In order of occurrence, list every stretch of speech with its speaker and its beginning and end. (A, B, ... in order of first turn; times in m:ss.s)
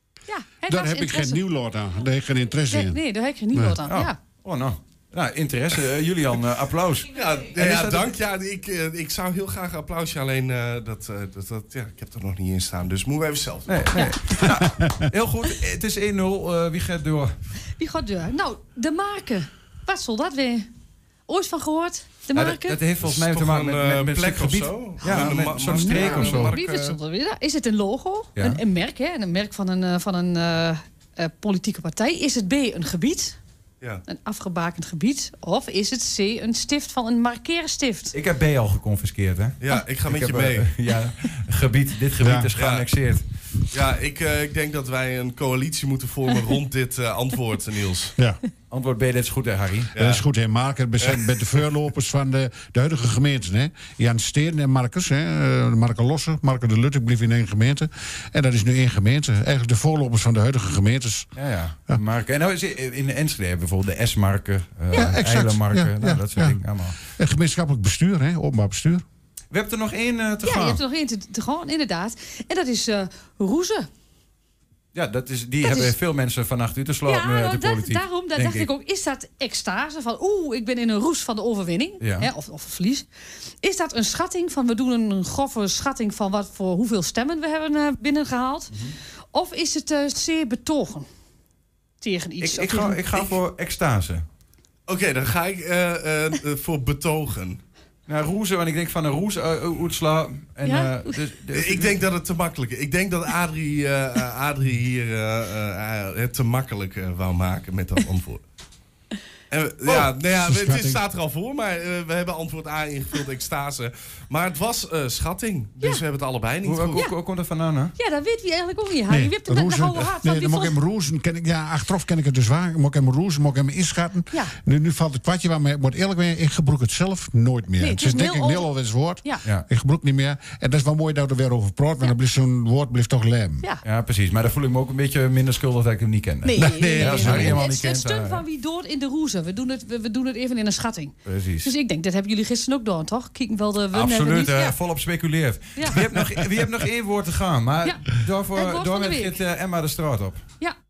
0:00.3-0:01.4 A
0:00.6-0:03.0 B
0:02.7-0:04.2 A
0:03.8-0:08.1 C
0:07.1-0:14.0 D
0:13.7-0:17.4 C
0:14.4-0:14.9 B
0:17.8-0:20.7 A
0:21.3-0:22.9 A
0:22.3-0:26.5 C
0:23.0-0:27.0 D
0:25.0-0:33.4 A
0:28.4-0:28.6 C
0:34.1-0:38.1 A
0:38.1-0:43.2 C
0:39.6-0:40.7 D
0:42.2-0:42.5 B
0:42.6-0:42.9 D
0:43.7-0:48.1 D
0:48.7-0:50.0 C
0:49.9-0:50.2 D
0:50.0-1:01.3 B
0:51.0-0:51.6 D
1:01.4-1:07.0 C
1:04.9-1:09.0 B
1:09.5-1:10.8 C
1:10.4-1:13.9 A
1:14.9-1:18.7 C
1:15.6-1:16.0 A
1:17.1-1:23.1 A
1:22.0-1:22.3 C
1:23.6-1:28.8 A
1:29.3-1:31.1 A
1:32.0-1:33.1 A
1:32.4-1:34.2 C
1:34.9-1:37.6 D
1:38.1-1:42.0 C
1:40.6-1:41.2 A
1:41.5-1:48.4 D
1:49.5-1:57.1 D
1:50.3-1:51.0 B
1:56.6-1:57.9 C
1:58.0-2:00.8 A
1:59.1-2:13.7 B
2:04.3-2:04.6 A
2:07.8-2:08.7 A
2:09.4-2:09.7 C
2:13.8-2:18.4 C
2:16.4-2:24.8 A
2:16.6-2:17.6 B
2:21.2-2:21.7 C
2:23.9-2:30.4 C
2:25.8-2:26.0 A
2:27.8-2:29.4 A